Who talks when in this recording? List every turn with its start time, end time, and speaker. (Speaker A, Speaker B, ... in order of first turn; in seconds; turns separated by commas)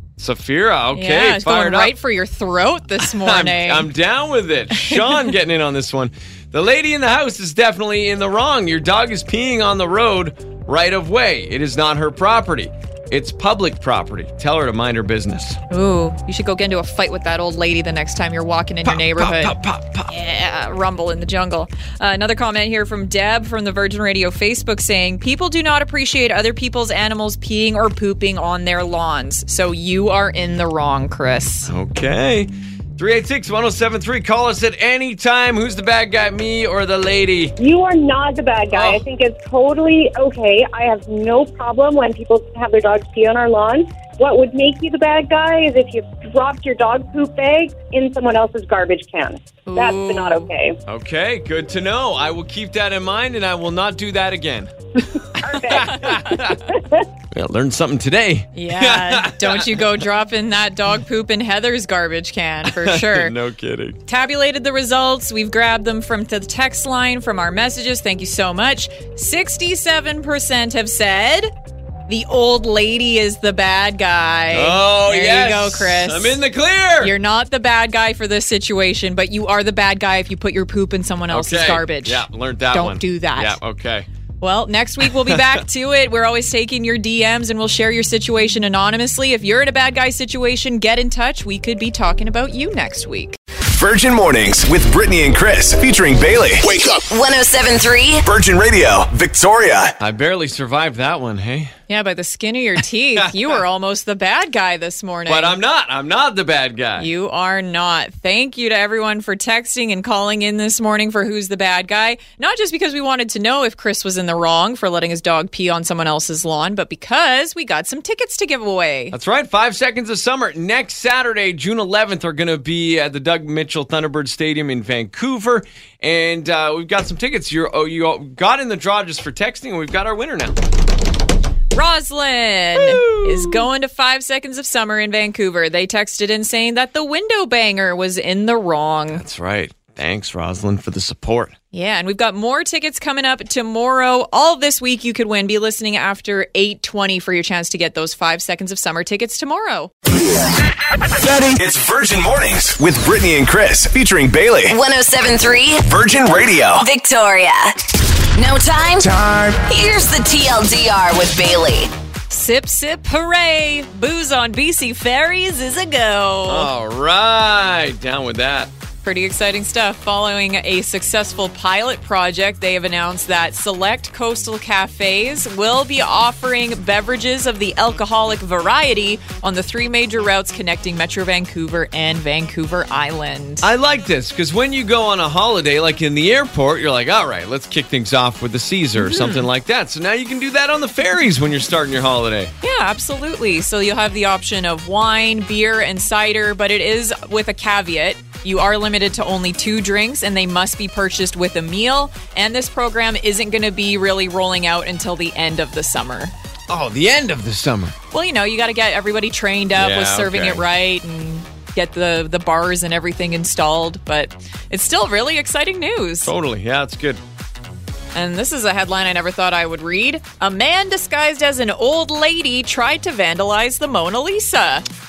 Speaker A: 0.2-1.9, Speaker B: 0.9-3.9, Speaker A: 3.0-15.6, Speaker B: 4.7-5.3, Speaker B: 15.7-19.6, Speaker A: 18.8-20.1, Speaker B: 20.1-31.7, Speaker A: 31.7-37.5, Speaker C: 37.6-50.8, Speaker A: 38.7-39.0, Speaker B: 49.6-50.5, Speaker A: 50.9-56.6, Speaker C: 55.4-57.0, Speaker A: 57.3-59.9, Speaker B: 58.5-63.3, Speaker A: 62.6-64.0, Speaker B: 64.1-71.5, Speaker B: 72.1-76.4, Speaker A: 74.5-77.1, Speaker B: 77.0-83.6, Speaker A: 81.3-84.1, Speaker B: 84.4-93.4, Speaker A: 85.2-85.6, Speaker D: 93.7-96.9, Speaker E: 96.9-98.2, Speaker D: 98.2-99.9, Speaker A: 100.0-101.7, Speaker B: 101.9-105.6, Speaker A: 103.2-103.5, Speaker A: 105.3-107.1, Speaker B: 107.0-119.1, Speaker A: 119.1-130.6, Speaker B: 131.7-139.2, Speaker A: 132.8-133.7, Speaker A: 139.1-141.5, Speaker B: 141.7-149.9, Speaker D: 151.4-154.8, Speaker E: 154.7-155.9, Speaker D: 155.8-156.8, Speaker E: 156.8-161.9, Speaker D: 159.0-159.5, Speaker B: 162.3-166.7, Speaker A: 166.5-168.7, Speaker B: 169.0-183.7, Speaker A: 183.6-192.5, Speaker B: 189.0-189.5, Speaker B: 192.6-206.3, Speaker A: 206.7-207.9, Speaker B: 208.1-216.3, Speaker A: 209.8-210.6, Speaker A: 216.2-217.2, Speaker B: 218.1-224.8